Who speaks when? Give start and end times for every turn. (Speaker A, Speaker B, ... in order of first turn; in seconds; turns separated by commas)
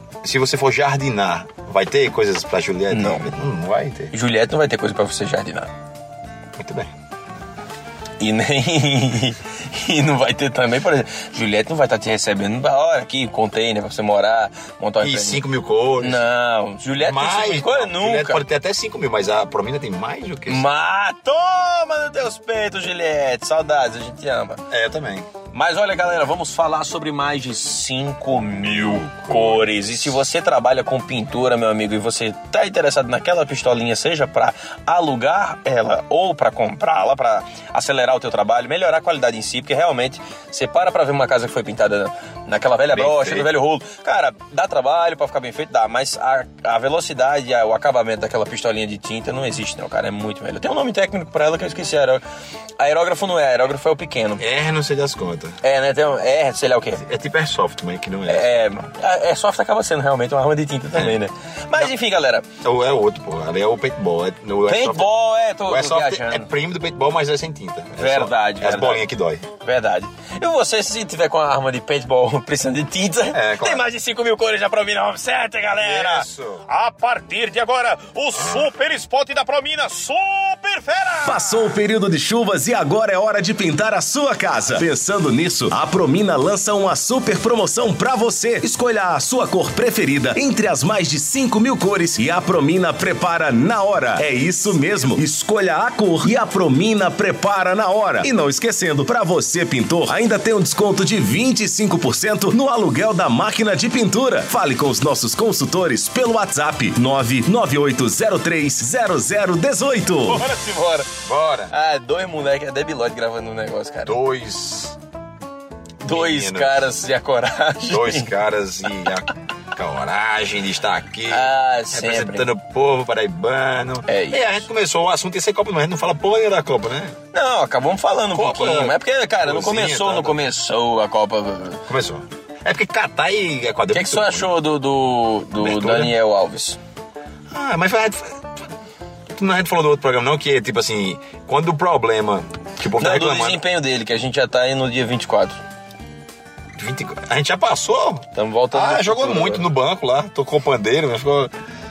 Speaker A: 0.2-4.1, Speaker B: 2.9-3.3, Speaker B: 4.1-5.7, Speaker A: 6.6-6.9, Speaker B: 8.2-15.4, Speaker A: 15.0-16.2, Speaker B: 16.0-18.4, Speaker A: 17.0-20.6, Speaker B: 20.5-24.6, Speaker A: 24.7-25.3, Speaker B: 25.5-52.2, Speaker A: 28.4-29.8, Speaker A: 42.9-43.5, Speaker B: 52.8-54.4, Speaker A: 54.4-55.6, Speaker B: 55.6-57.0, Speaker A: 57.0-58.5, Speaker B: 58.3-62.5, Speaker A: 62.6-65.1, Speaker B: 64.7-66.5, Speaker A: 65.7-69.4, Speaker B: 68.0-69.1, Speaker B: 69.6-81.7, Speaker A: 73.3-73.9, Speaker A: 75.8-76.6, Speaker A: 78.3-78.7, Speaker C: 81.2-110.5, Speaker B: 110.2-111.1, Speaker A: 111.2-111.7, Speaker B: 111.7-114.2, Speaker A: 114.0-115.0, Speaker B: 116.0-118.3, Speaker A: 116.1-116.8, Speaker A: 117.9-127.2, Speaker B: 121.3-122.5, Speaker B: 124.1-124.6, Speaker B: 127.3-131.8, Speaker A: 128.3-130.4, Speaker A: 131.9-134.5, Speaker B: 133.9-136.8, Speaker A: 135.6-136.1, Speaker A: 137.5-138.7, Speaker A: 139.3-143.6, Speaker B: 142.9-145.6, Speaker A: 146.8-151.5, Speaker B: 148.3-149.7